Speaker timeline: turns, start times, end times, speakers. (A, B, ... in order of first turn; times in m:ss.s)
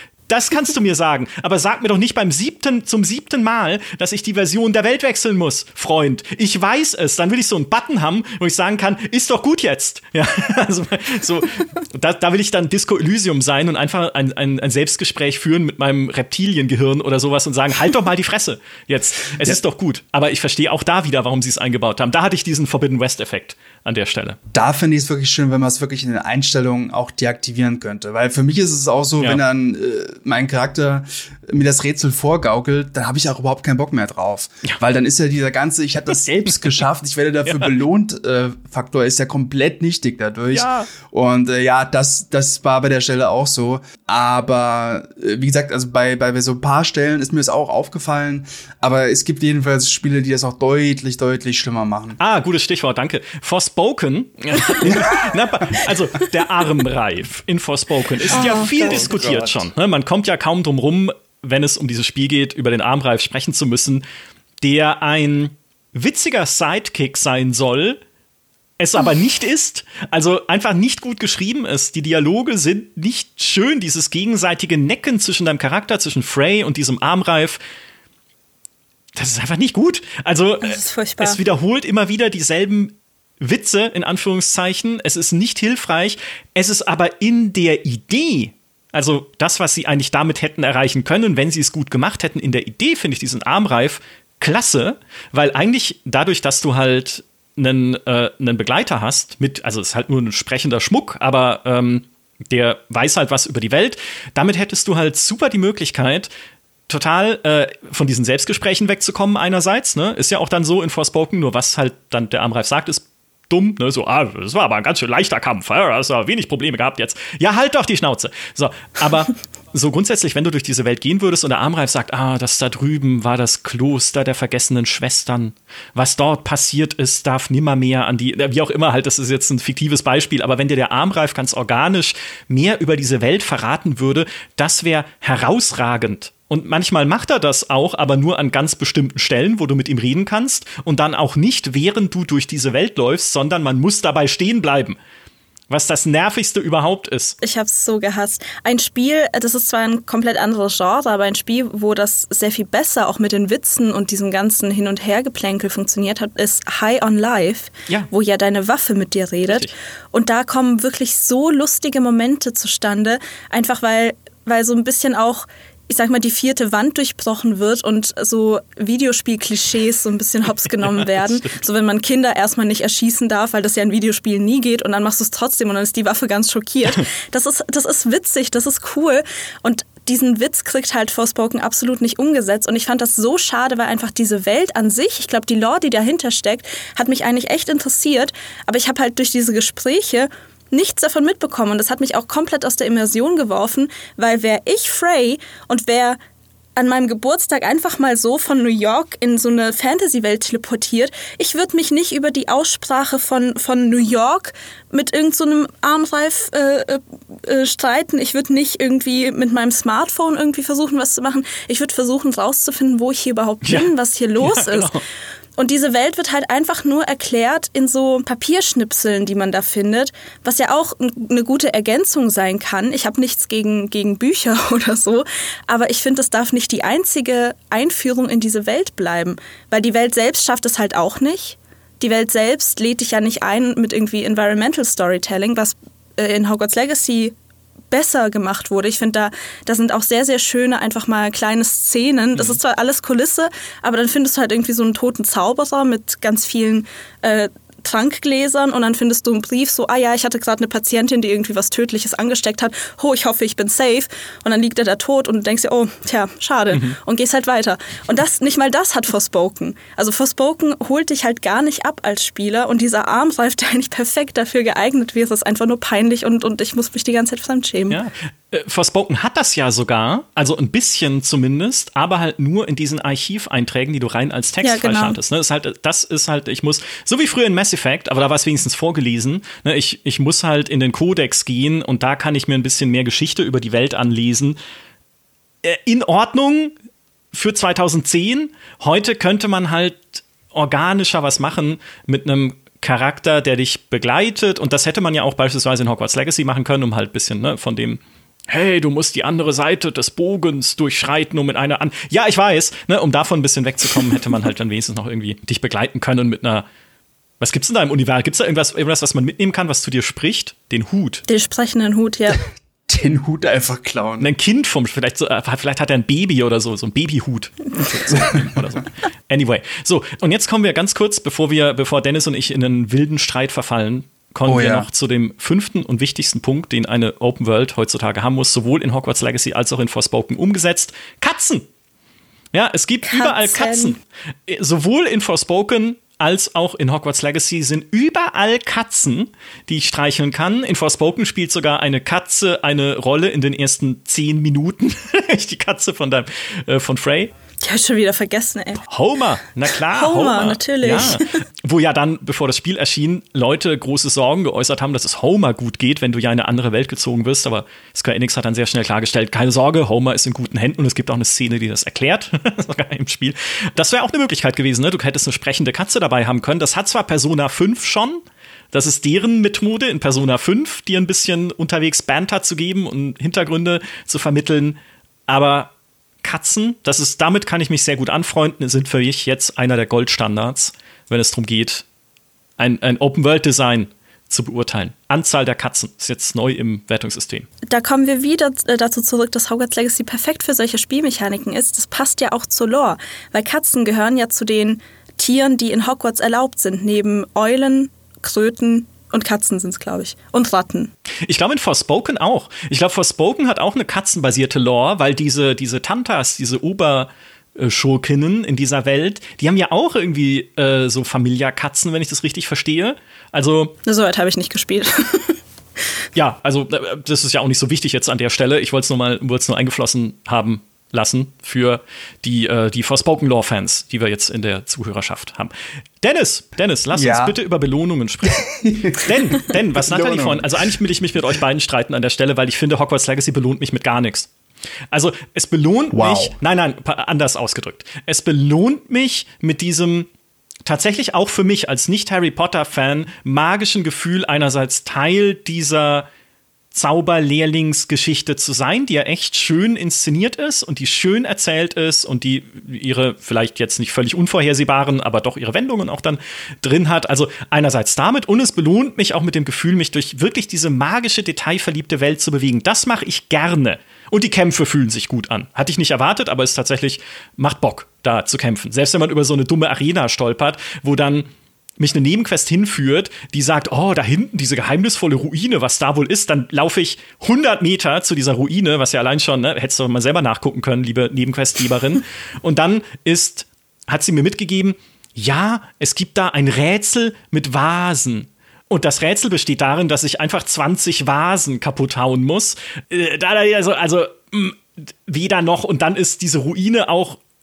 0:00.3-0:24.4 A
0:24.5-0:52.2 B
0:40.5-0:40.9 A
0:52.2-1:04.0 A
0:54.9-0:55.2 B
0:58.3-0:59.2 C
0:58.3-0:59.7 B
1:04.6-1:08.0 A
1:08.8-1:17.6 A
1:19.2-1:46.3 A
1:20.6-1:21.4 C
1:46.9-2:25.0 A
2:25.7-2:27.4 A
2:27.4-3:16.2 C
2:39.5-2:39.7 A
2:51.0-2:51.6 A
3:16.8-3:35.0 C
3:33.6-3:35.0 A
3:35.6-3:57.4 C
3:57.9-4:28.0 C
4:02.3-4:02.6 A
4:27.9-4:44.6 A
4:34.6-4:35.2 C
4:45.6-4:46.7 A
4:47.3-5:06.7 A
5:07.4-5:11.2 A
5:11.3-5:12.4 C
5:12.9-5:14.3 B
5:14.2-5:31.7 A
5:18.1-5:18.4 B
5:24.4-5:24.9 B
5:32.5-5:47.3 A
5:33.1-5:34.0 C
5:47.6-5:48.8 C
5:48.9-6:15.7 A
5:49.9-5:51.3 C
6:16.2-6:21.8 A
6:22.6-6:27.5 A
6:27.7-6:40.9 C
6:41.3-6:53.8 A
6:53.9-6:55.3 C
6:56.2-7:05.5 A
7:06.0-7:14.3 A
7:06.9-7:07.4 B
7:08.4-7:10.7 B
7:14.9-7:20.1 A
7:15.9-7:16.4 B
7:20.7-7:26.1 A
7:26.7-7:51.3 A
7:51.8-8:17.2 A